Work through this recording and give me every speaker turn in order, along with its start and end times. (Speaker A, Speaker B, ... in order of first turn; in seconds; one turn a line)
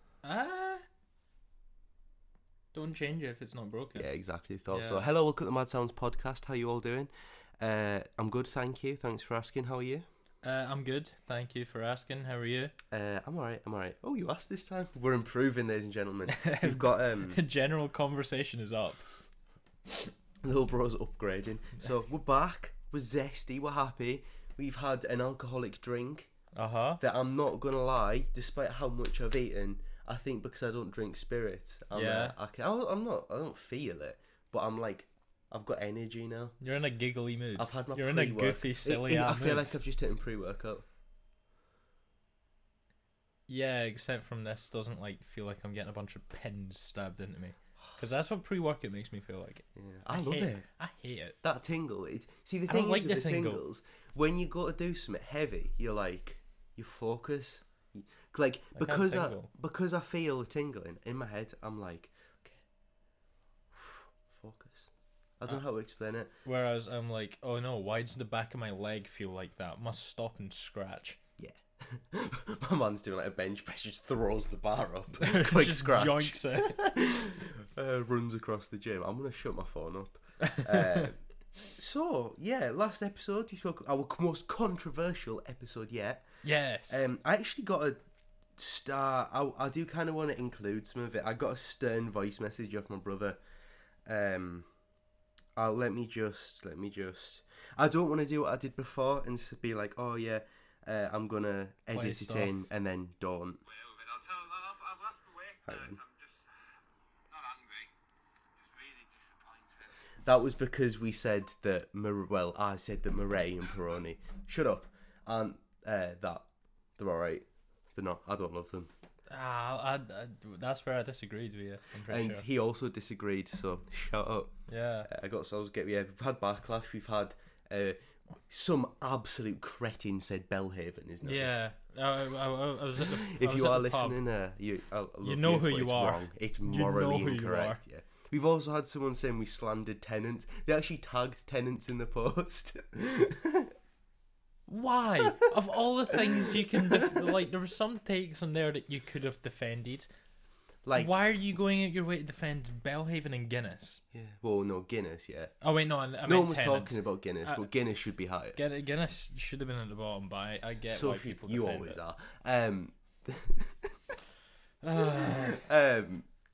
Speaker A: 0.2-0.9
Speaker A: 2.7-4.1
Speaker B: 3.9-10.1
Speaker A: 4.7-5.1
Speaker A: 10.4-12.8
Speaker B: 12.9-17.4
Speaker A: 16.3-19.0
Speaker B: 20.4-26.3
Speaker A: 26.5-27.0
Speaker B: 27.0-36.6
Speaker A: 31.9-32.4
Speaker A: 36.6-39.8
Speaker B: 37.6-40.9
Speaker A: 43.5-51.4
Speaker B: 49.8-50.7
Speaker B: 51.4-62.6
Speaker A: 52.7-53.6
Speaker A: 58.8-59.5
Speaker B: 63.7-66.3
Speaker A: 66.5-71.2
Speaker B: 71.4-86.3
Speaker A: 75.1-76.8
Speaker A: 80.4-81.1
Speaker A: 86.4-87.1
Speaker B: 86.9-88.0
Speaker B: 88.6-93.4
Speaker B: 94.0-94.7
Speaker B: 95.6-103.6
Speaker A: 101.9-102.7
Speaker C: 103.7-106.5
Speaker B: 105.7-106.0
Speaker C: 107.3-107.9
Speaker C: 108.6-110.0
Speaker B: 110.2-118.9
Speaker A: 119.3-122.5
Speaker B: 122.0-124.5
Speaker A: 124.7-125.1
Speaker B: 125.1-131.6
Speaker A: 131.2-134.2
Speaker B: 133.0-143.7
Speaker A: 135.2-137.8
Speaker A: 144.7-150.1
Speaker B: 145.3-145.5
Speaker B: 146.1-147.3
Speaker B: 150.8-151.2
Speaker A: 150.9-154.0
Speaker B: 154.1-155.6
Speaker A: 155.6-157.7
Speaker B: 156.2-158.6
Speaker A: 158.6-162.0
Speaker B: 160.9-164.2
Speaker A: 164.8-165.6
Speaker B: 165.0-166.3